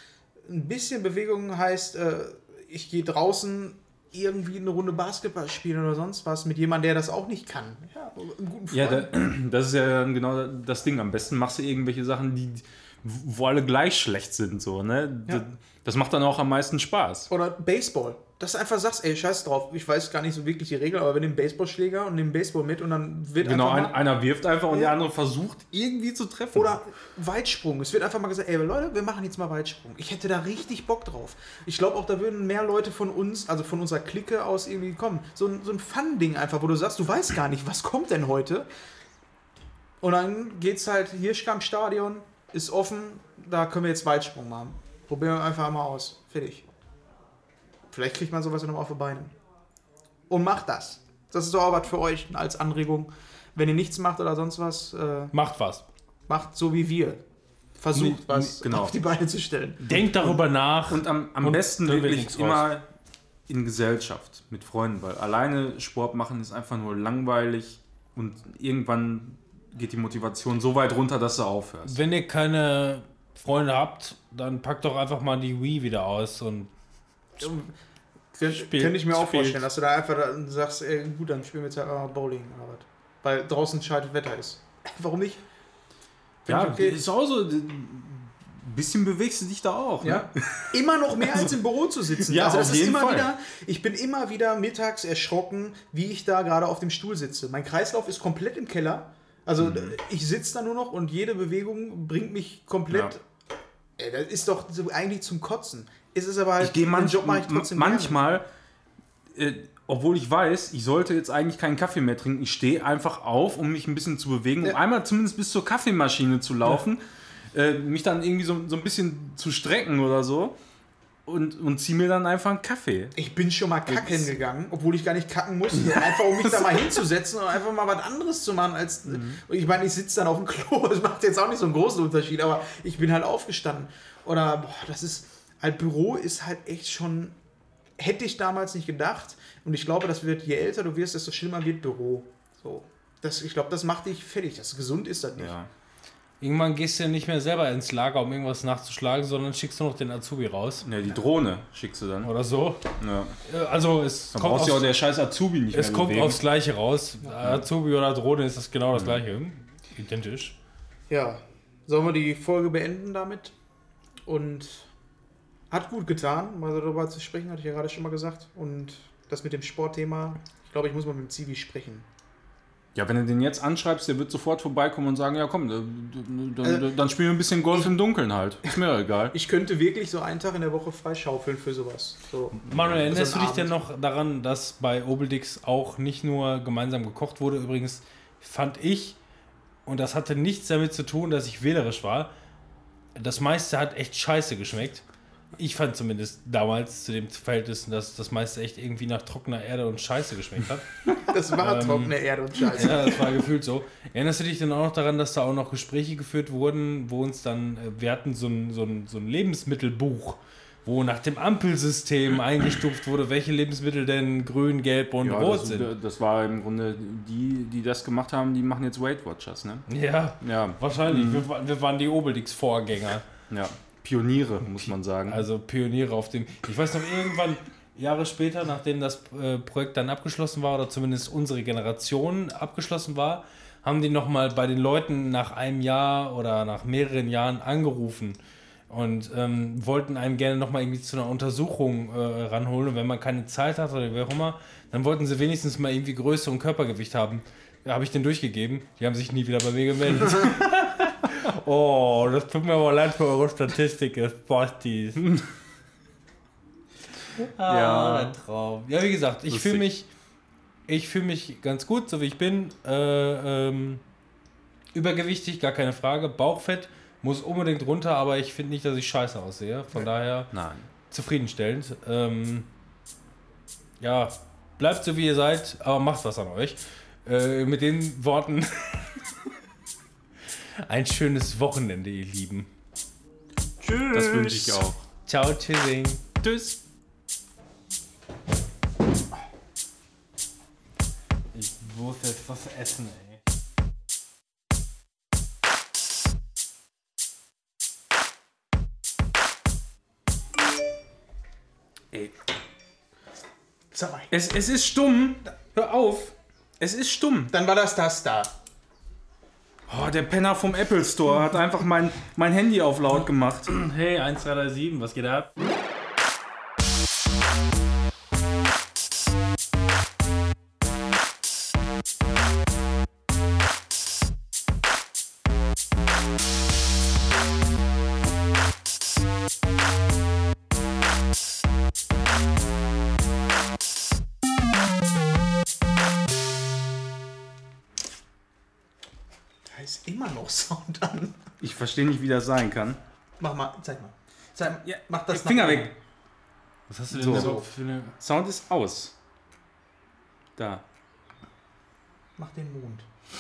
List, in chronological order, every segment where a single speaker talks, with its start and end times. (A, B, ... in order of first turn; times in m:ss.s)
0:00.4-0:09.1 A
0:08.7-0:17.3 B
0:17.3-0:24.0 A
0:23.4-0:26.8 B
0:24.7-0:25.0 A
0:26.5-0:38.7 A
0:40.0-0:46.7 A
0:47.9-0:49.3 A
0:50.3-0:55.3 A
0:55.3-0:55.8 C
0:56.3-0:57.2 A
0:57.8-1:00.4 A
0:58.0-0:58.5 C
0:58.6-0:59.0 B
0:59.8-1:02.7 C
1:00.9-1:02.8 B
1:03.5-1:12.0 B
1:11.9-1:16.7 C
1:17.4-1:17.7 A
1:18.3-1:25.4 A
1:18.4-1:19.6 C
1:26.4-1:27.1 A
1:26.5-1:31.5 B
1:30.0-1:43.2 A
1:32.2-1:33.3 B
1:39.6-1:40.0 B
1:44.0-1:48.4 A
1:46.6-1:48.4 B
1:49.4-1:57.0 B
1:57.5-2:00.6 B
2:01.3-2:03.2 B
2:03.2-2:17.4 A
2:03.9-2:04.2 B
2:05.8-2:06.9 B
2:09.1-2:09.4 B
2:18.0-2:25.5 A
2:25.4-2:25.7 B
2:26.4-2:30.8 C
2:30.8-2:32.3 B
2:32.2-2:32.9 C
2:33.0-2:33.4 B
2:33.4-2:34.8 C
2:34.4-2:36.4 B
2:35.7-2:40.6 C
2:38.9-2:39.2 B
2:41.1-2:43.5 A
2:44.3-2:44.9 A
2:45.7-2:52.1 A
2:53.0-2:59.4 B
2:59.3-3:03.7 A
3:02.6-3:09.2 C
3:02.7-3:03.1 B
3:09.9-3:12.3 C
3:13.2-3:15.0 C
3:15.6-3:20.9 C
3:21.2-3:23.3 A
3:21.5-3:22.2 C
3:22.7-3:35.9 C
3:35.2-3:39.9 B
3:39.9-3:43.3 C
3:40.4-3:41.4 B
3:43.5-3:45.4 B
3:44.7-3:58.4 C
3:58.9-4:15.3 C
4:17.4-4:20.1 C
4:17.7-4:18.4 B
4:19.5-4:19.8 B
4:20.9-4:24.0 C
4:24.9-4:30.5 C
4:30.5-4:30.9 B
4:31.1-4:32.7 C
4:34.0-4:39.2 C
4:40.8-4:42.7 C
4:43.8-4:46.2 C
4:44.1-4:45.0 B
4:46.4-4:46.8 B
4:51.5-4:53.4 C
5:03.9-5:04.3 A
5:04.3-5:05.5 B
5:05.7-5:06.3 C
5:06.8-5:07.5 B
5:07.5-5:08.5 A
5:09.9-5:13.7 B
5:13.7-5:15.5 C
5:39.7-5:41.4 A
5:41.6-5:43.0 B
5:43.4-5:45.9 A
5:44.8-5:45.9 B
5:46.9-5:48.1 C
5:47.1-5:47.6 B
5:47.3-5:47.7 A
5:48.2-5:49.1 B
5:50.6-5:50.8 B
5:52.4-5:53.1 A